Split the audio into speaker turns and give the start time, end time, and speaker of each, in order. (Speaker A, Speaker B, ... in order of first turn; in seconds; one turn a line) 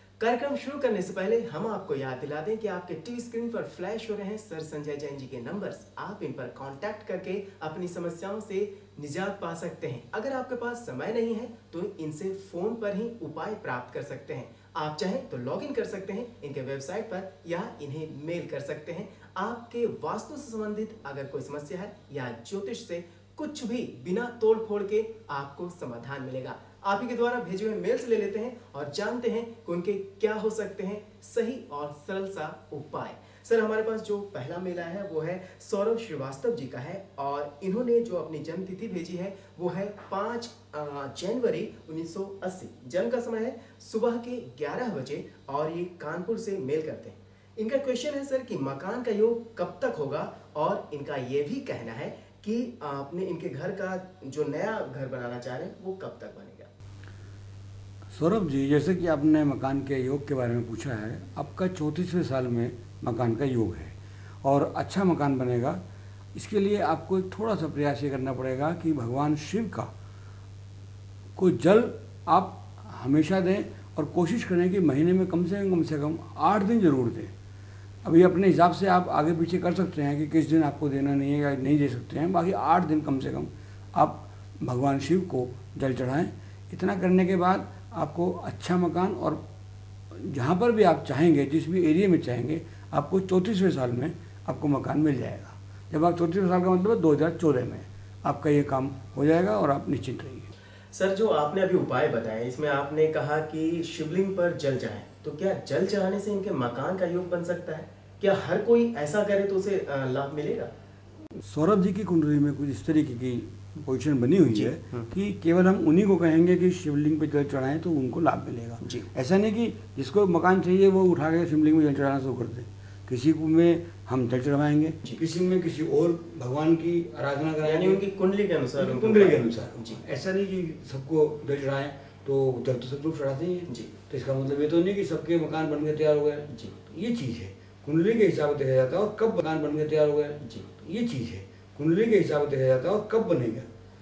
Speaker A: 0.2-56.7
Speaker B: 58.1-65.8
Speaker B: 66.3-69.9
Speaker B: 71.3-77.3
Speaker B: 78.0-89.4
Speaker B: 90.1-100.5
Speaker A: 100.9-110.7
Speaker B: 111.4-128.0
Speaker A: 114.5-115.1
Speaker A: 118.8-119.1
Speaker A: 127.6-130.0
Speaker B: 128.8-143.7